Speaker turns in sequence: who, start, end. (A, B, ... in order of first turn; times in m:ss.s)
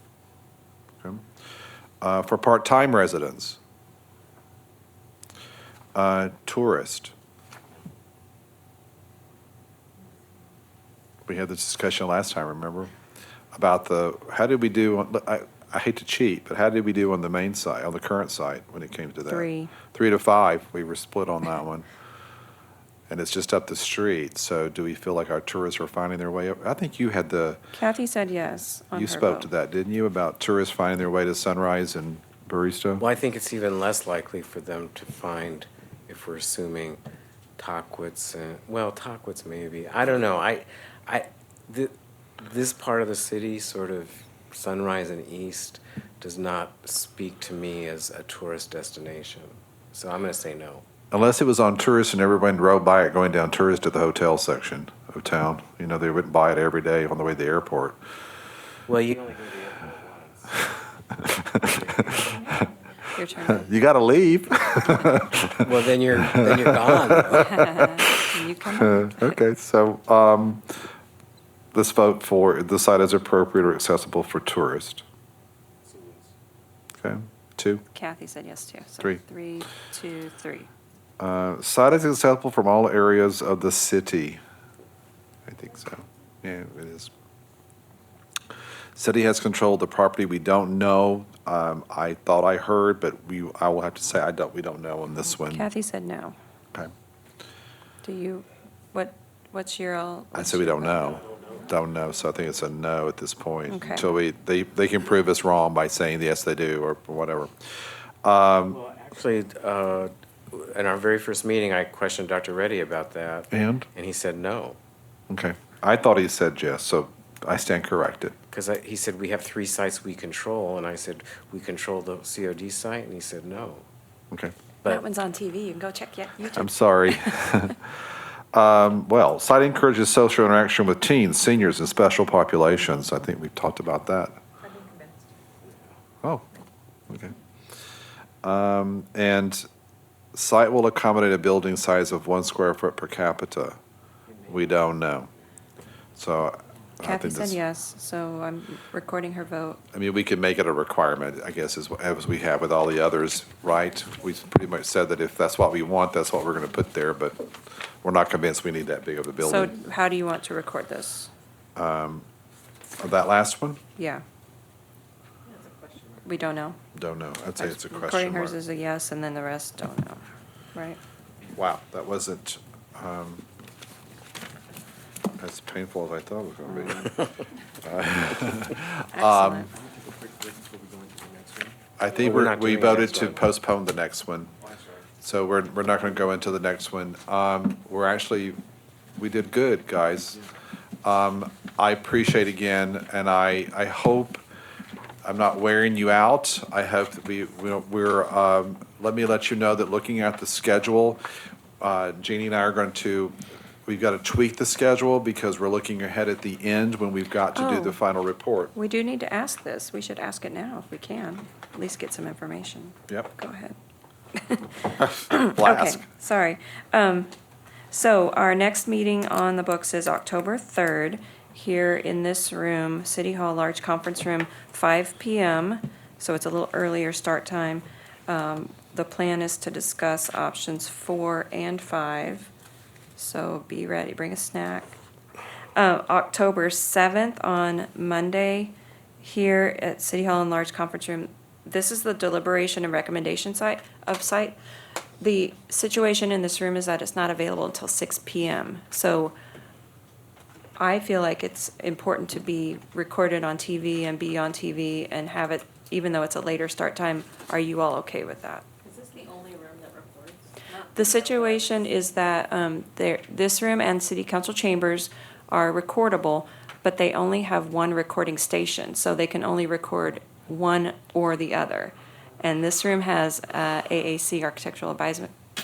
0:02.0-0:03.6 A
0:05.9-0:07.1 A
0:11.3-0:12.9 A
0:13.5-0:21.8 A
0:19.3-0:19.7 B
0:23.1-0:27.6 A
0:27.7-0:29.5 B
0:28.9-0:33.0 A
0:33.0-0:37.0 C
0:37.6-0:50.8 C
0:51.1-0:58.0 A
0:58.9-1:00.7 C
1:01.2-1:02.6 A
1:01.5-1:02.3 C
1:03.1-1:03.7 B
1:03.5-1:05.6 A
1:05.6-1:07.6 C
1:06.2-1:10.7 A
1:07.5-1:09.4 B
1:11.7-1:15.0 A
1:17.0-1:17.8 A
1:17.9-1:20.7 B
1:21.2-1:24.4 A
1:25.5-1:27.1 A
1:29.0-1:35.6 A
1:35.4-1:36.4 B
1:38.0-1:41.2 B
1:40.3-1:48.8 A
1:43.7-1:44.1 B
1:48.8-1:54.8 C
1:53.5-1:53.9 A
1:55.3-1:58.4 A
1:58.5-2:03.8 C
2:04.8-2:07.6 B
2:06.5-2:07.8 A
2:08.5-2:14.4 A
2:14.6-2:15.2 D
2:17.1-2:17.3 A
2:18.4-2:19.6 A
2:20.3-2:23.8 A
2:24.4-2:25.3 A
2:26.2-2:27.6 A
2:27.0-2:29.8 B
2:29.9-2:37.5 A
2:38.0-2:39.7 A
2:39.4-2:41.3 B
2:41.8-2:42.2 A
2:43.0-2:43.8 A
2:44.0-2:44.2 B
2:45.5-2:46.2 D
2:46.2-2:46.8 B
2:46.9-2:48.6 A
2:47.6-2:50.2 B
2:51.5-2:53.4 A
2:55.4-2:57.3 A
2:57.8-2:59.7 A
2:59.1-2:59.7 B
3:00.1-3:01.7 D
3:02.0-3:04.5 A
3:02.1-3:03.5 C
3:05.2-3:08.6 A
3:09.2-3:10.4 A
3:11.0-3:14.4 A
3:15.2-3:21.2 A
3:21.8-3:28.7 A
3:27.5-3:28.0 B
3:28.7-3:33.8 B
3:34.3-3:37.3 B
3:35.0-3:36.0 A
3:37.9-3:52.5 B
3:53.2-3:55.0 B
3:55.8-4:04.6 B
4:05.2-4:09.3 B
4:10.8-4:18.6 B
4:18.8-4:21.9 D
4:20.9-4:35.3 B